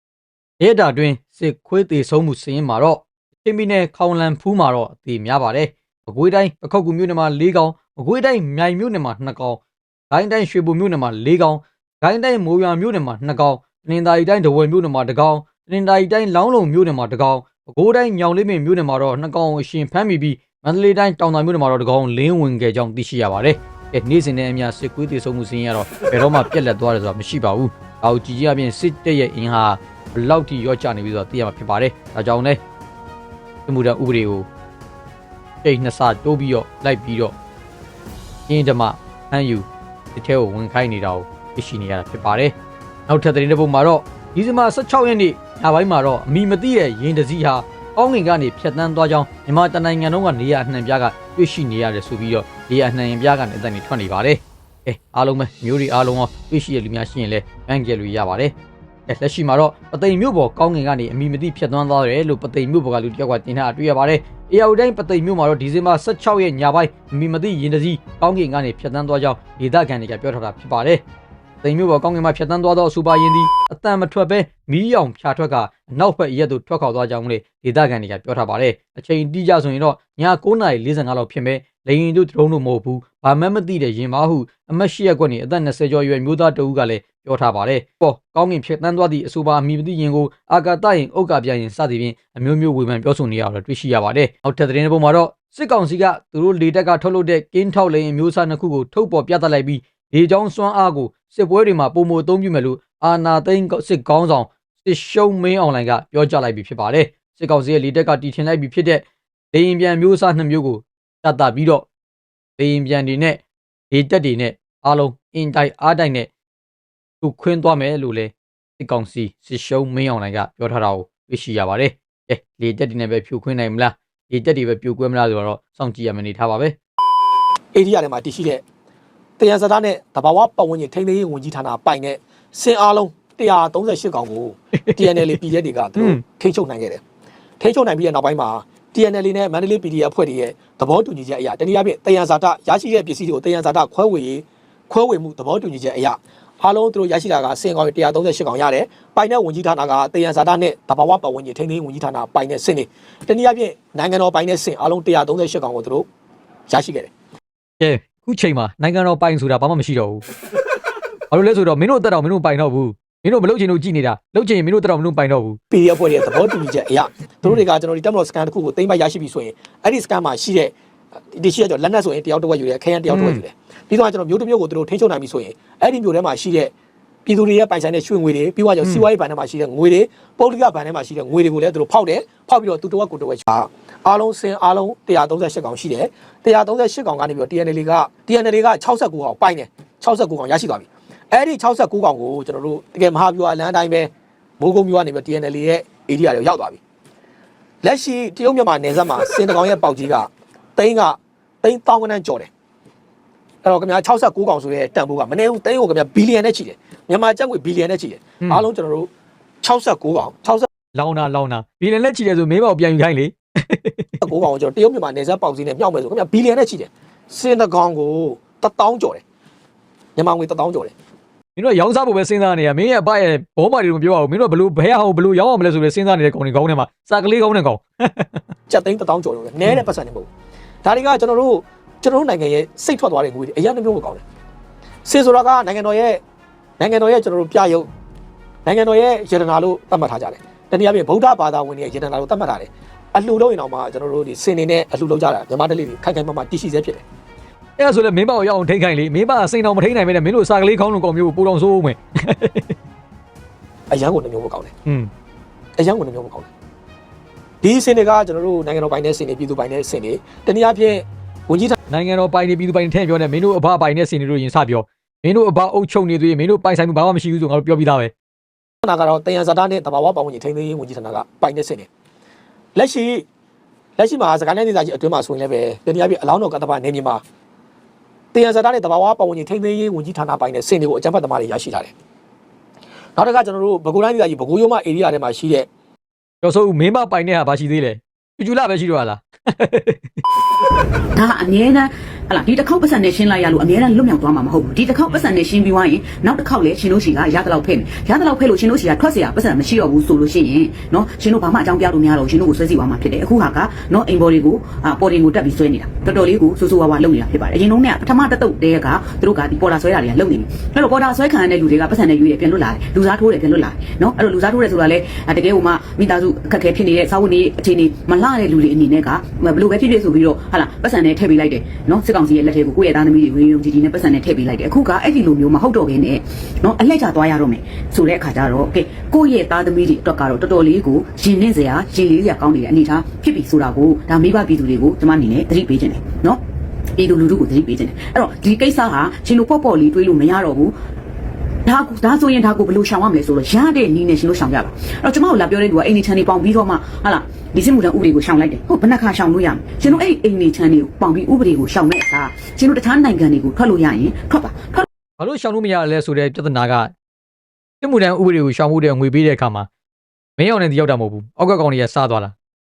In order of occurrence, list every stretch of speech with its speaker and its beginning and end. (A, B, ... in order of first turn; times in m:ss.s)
0:00.6-0:09.6 A
0:10.1-0:32.6 A
0:33.7-0:34.5 A
0:35.6-0:37.3 A
0:38.5-0:42.5 A
0:43.1-0:58.5 A
0:59.1-1:11.0 A
1:11.6-1:51.9 A
1:52.6-1:56.3 A
1:57.2-2:06.8 A
2:07.7-2:08.6 B
2:09.4-2:17.0 B
2:14.8-2:15.4 A
2:16.0-2:16.2 A
2:17.6-2:36.1 B
2:36.7-2:37.1 B
2:37.8-2:40.2 A
2:41.3-2:45.6 A
2:45.7-2:50.8 B
2:51.3-2:56.7 B
2:53.1-2:53.4 A
2:57.3-3:16.8 B
3:17.8-3:22.5 B
3:23.6-3:29.1 B
3:29.6-3:30.7 B
3:30.9-3:34.3 A
3:34.2-3:39.2 B
3:40.2-3:40.9 B
3:41.6-3:48.5 A
3:48.7-3:50.3 B
3:50.8-3:54.2 B
3:55.0-3:56.2 B
3:56.8-3:57.9 B
3:58.6-4:07.0 B
4:07.8-4:12.7 A
4:13.9-4:14.7 B
4:15.8-4:16.5 B
4:17.6-4:21.8 B
4:21.9-4:28.1 A
4:28.8-4:31.9 B
4:32.8-4:33.2 B
4:34.0-4:37.2 B
4:38.3-4:41.9 B
4:43.2-4:45.7 B
4:46.4-4:50.1 A
4:51.1-5:36.4 C
5:37.0-5:40.8 C
5:41.6-5:54.9 C
5:55.2-5:56.9 A
5:57.8-5:59.7 A
6:00.4-6:02.3 A